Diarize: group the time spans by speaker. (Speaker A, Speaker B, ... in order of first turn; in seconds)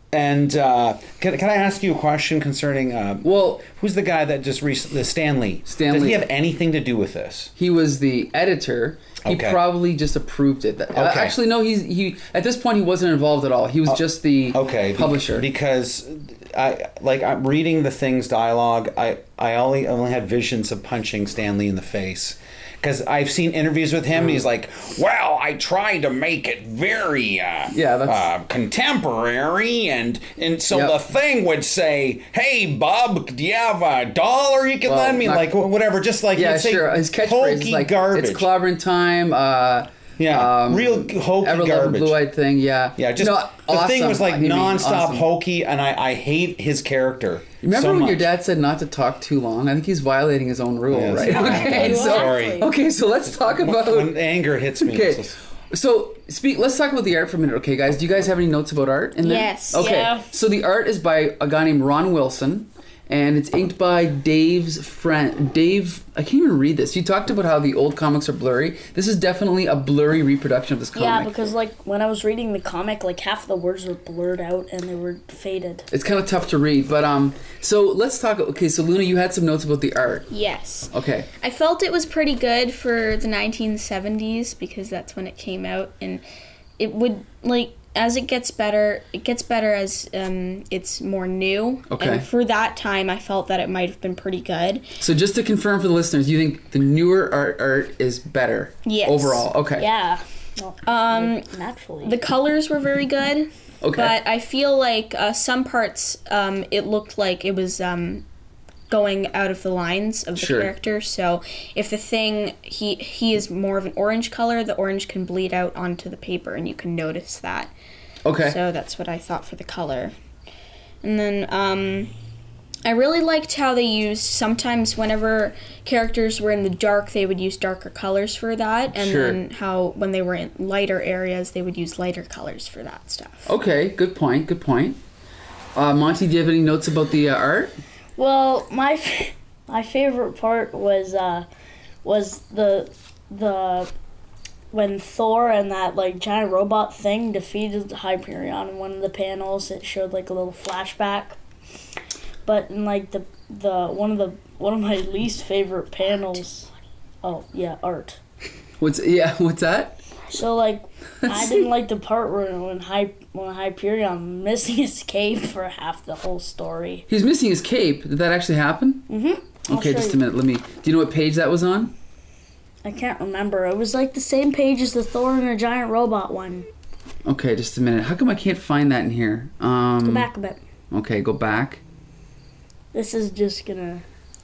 Speaker A: 0.1-7.5, 9.2-9.6, 10.9-11.3, 14.5-38.5, 40.2-42.2, 43.0-48.3, 50.9-52.7, 53.3-55.4
Speaker B: 3.2-3.6, 5.7-6.2, 7.6-15.5, 24.1-24.4, 27.7-28.3, 30.7-31.0, 34.9-35.5, 36.3-45.2, 47.6-54.2, 54.8-71.5, 75.9-80.3, 80.9-81.3, 91.9-92.3, 95.0-99.9, 103.8-104.2, 110.3-110.7, 118.2-118.6, 128.9-129.4, 133.4-135.0, 135.7-137.7, 158.8-160.0, 161.2-161.7, 167.1-169.1, 169.7-171.9, 177.2-180.3, 180.9-181.8
Speaker C: 51.2-52.6, 59.7-60.2, 70.9-75.8, 99.8-102.2, 138.2-141.4, 142.0-143.9, 144.7-151.4, 152.4-156.7, 157.2-158.2, 160.3-167.0, 169.1-170.2, 172.8-176.7, 180.0-180.6, 182.9-184.0
Speaker D: 51.9-52.5, 59.2-60.1, 80.3-86.2, 86.8-94.8, 98.8-99.5, 100.8-101.5, 102.0-108.2, 108.9-117.7, 118.4-120.1, 121.0-122.1, 122.8-133.5